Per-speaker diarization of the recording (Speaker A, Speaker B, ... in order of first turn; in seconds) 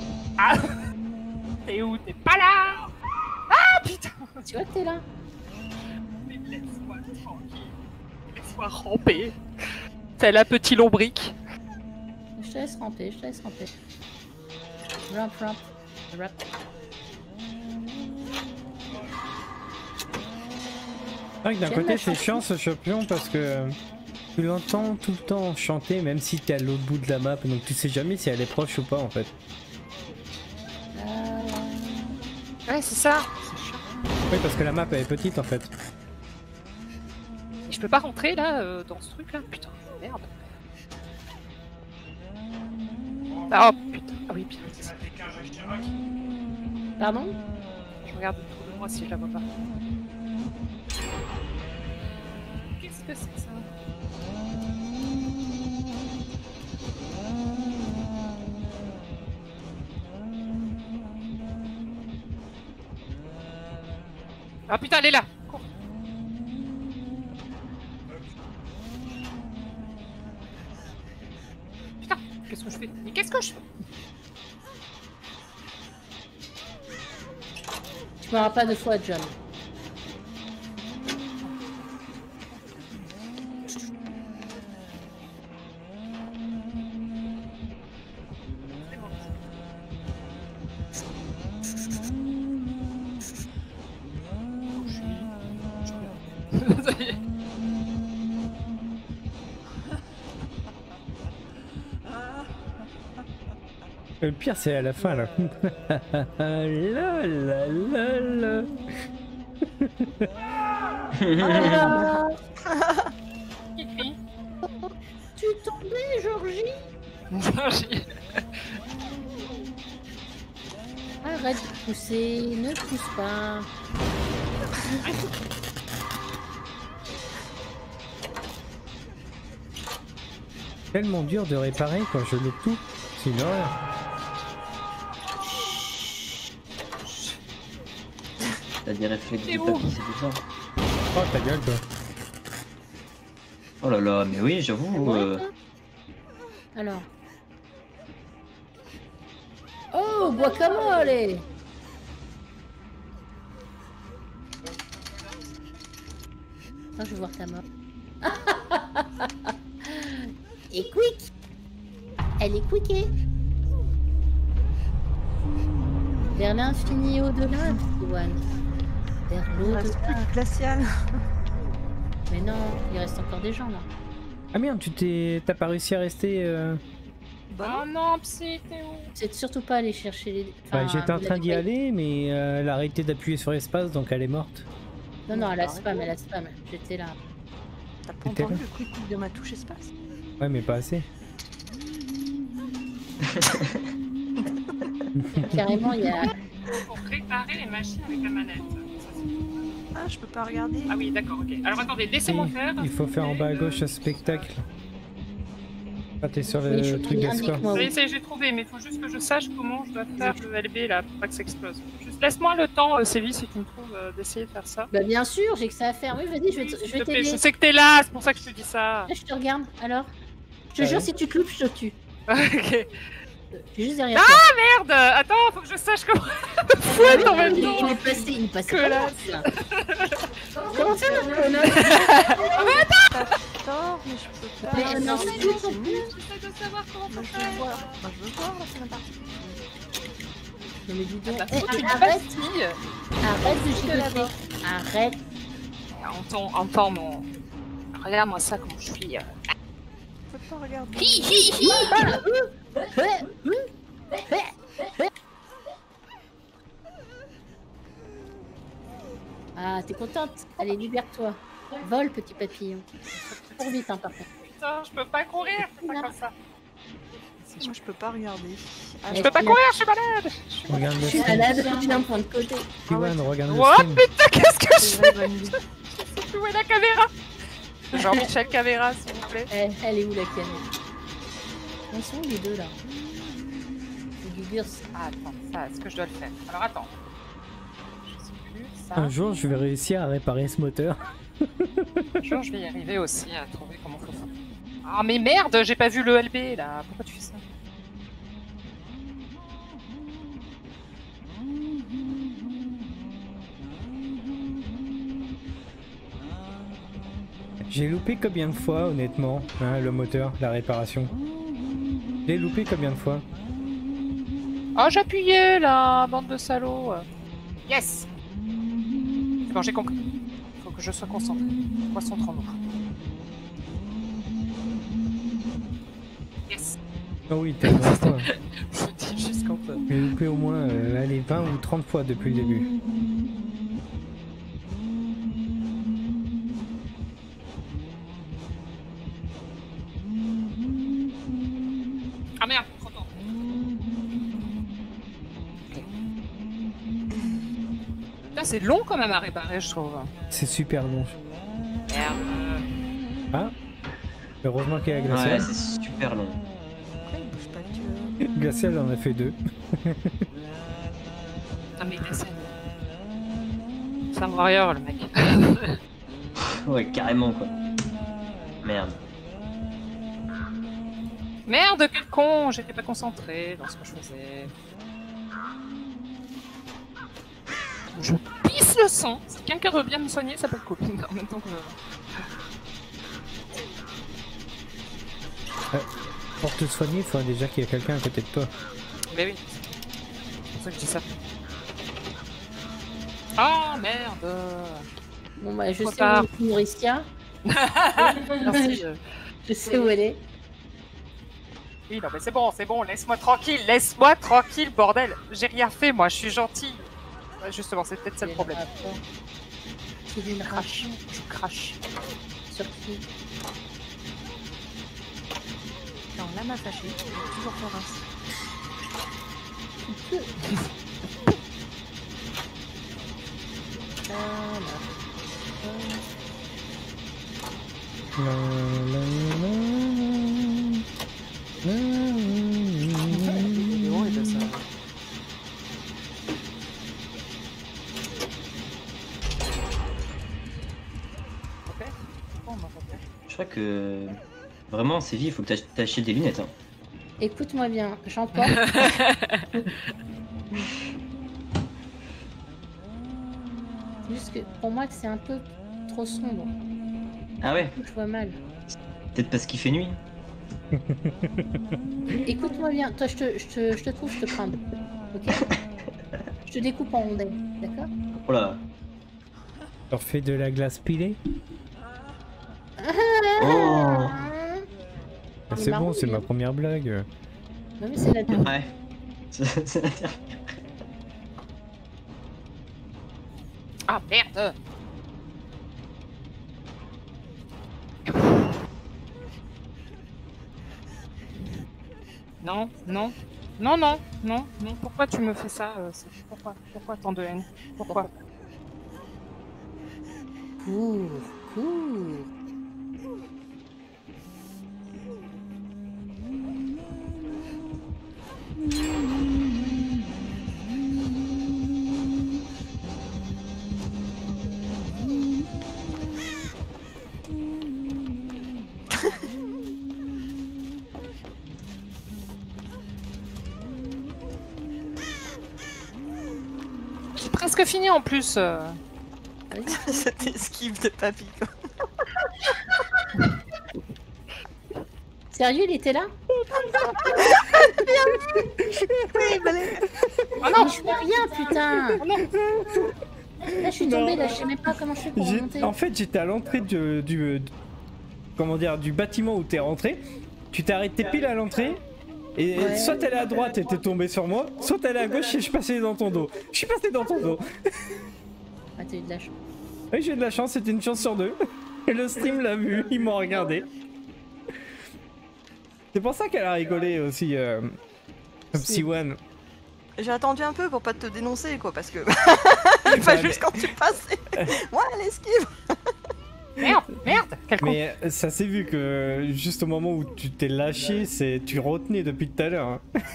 Speaker A: 0.4-0.8, 1.7-2.9, 3.5-4.4, 6.2-7.7, 8.3-9.4, 10.2-11.3, 32.7-33.9, 37.7-40.3, 43.5-45.0, 48.0-49.5, 52.6-53.7, 64.7-65.6, 72.0-73.6, 88.9-89.3, 94.8-97.2, 113.8-114.2, 117.3-118.1, 139.4-139.9, 177.6-179.1, 196.7-199.2, 200.9-204.5, 207.2-214.9, 216.5-219.1, 222.3-222.9, 224.1-233.3, 234.6-238.0, 241.3-242.8, 243.4-244.2, 245.9-247.3, 247.9-249.3, 250.9-252.0, 263.3-263.6, 264.4-266.3, 267.4-267.7, 269.1-271.4, 273.5-277.1, 277.9-279.5, 284.9-286.9, 288.0-289.1, 292.2-294.3, 294.8-297.4, 314.8-317.1, 317.7-318.1, 319.5-322.6, 326.5-326.8, 327.6-329.8, 342.4-343.2, 348.3-350.1, 351.9-352.6, 361.8-362.5, 364.1-365.8, 371.5-374.5, 377.9-381.8, 389.1-389.6, 390.6-391.1, 393.4-394.9, 395.8-396.3, 397.4-399.0, 399.6-399.9, 401.9-406.9, 407.4-408.6, 410.4-411.8, 433.1-434.6, 441.7-443.0, 448.4-449.4, 483.9-484.5, 492.4-498.1, 527.1-528.8, 540.4-541.3, 542.0-542.2, 576.6-577.8
Speaker B: 4.5-5.0, 12.4-13.7, 15.1-16.4, 21.6-22.4, 30.9-32.1, 47.0-47.4, 78.2-79.3, 111.5-112.4, 115.3-116.8, 121.2-123.7, 144.9-145.5, 146.7-147.1, 149.9-151.4, 157.0-157.6, 158.2-161.3, 162.4-163.1, 166.3-168.4, 169.3-170.2, 172.3-173.9, 179.1-181.6, 185.3-187.2, 195.3-196.3, 206.6-207.9, 214.9-217.4, 219.1-220.1, 220.7-222.0, 223.7-224.4, 226.8-229.5, 230.6-232.8, 234.7-236.1, 240.9-242.3, 243.2-245.2, 251.6-253.7, 254.2-255.1, 259.6-262.9, 263.5-264.2, 265.8-266.1, 269.1-269.6, 271.0-272.7, 277.9-278.2, 279.5-280.6, 281.9-282.8, 284.2-284.8, 395.4-397.1, 398.0-398.8, 399.4-400.2, 408.2-409.0, 410.1-410.9, 412.5-413.0, 419.9-420.3, 424.1-424.9, 425.6-426.1, 447.2-448.9, 454.0-456.5, 457.8-458.4, 462.2-464.6, 465.1-465.4, 466.4-467.9, 472.8-474.6, 475.5-476.3, 477.8-478.5, 500.6-502.3, 529.5-530.3, 535.3-538.4, 540.4-542.0, 543.4-545.7, 552.5-553.0, 558.8-559.4
Speaker C: 21.4-23.8, 24.3-29.3, 34.3-35.7, 104.2-108.7, 109.8-110.3, 130.9-133.7, 141.1-141.8, 174.5-176.8, 180.7-184.7, 188.2-188.6, 190.4-191.1, 195.2-195.9, 202.2-204.6, 206.2-207.7, 220.8-221.1, 270.7-271.8, 272.9-274.0, 288.9-291.9, 307.6-311.1, 312.2-313.2, 327.3-328.2, 329.9-332.7, 350.3-351.1, 354.4-355.5, 358.2-360.2, 386.4-388.5, 428.2-430.8, 431.6-434.5, 460.7-461.5, 469.9-471.2, 475.5-477.1, 542.3-542.9, 543.5-547.5, 548.4-551.8, 552.4-557.5, 559.9-563.6, 565.9-567.8, 568.5-569.2, 572.9-573.7, 577.1-582.8
Speaker D: 111.1-112.0, 138.8-140.4, 143.8-145.4, 193.3-193.8, 355.1-356.4, 366.5-367.5, 368.6-369.0, 443.3-446.5, 457.4-457.8, 459.1-460.0, 468.2-468.6, 473.4-474.2, 478.4-478.7, 479.3-480.5
Speaker E: 111.4-113.1, 169.6-171.2, 177.5-177.8, 185.3-186.1, 188.0-189.9, 199.9-200.9, 233.0-236.1, 237.1-239.2, 250.3-251.6, 267.5-269.6, 272.9-273.3, 274.7-275.6, 357.0-358.2, 416.1-418.0, 529.6-531.5, 537.3-537.7, 539.1-539.8, 570.0-575.9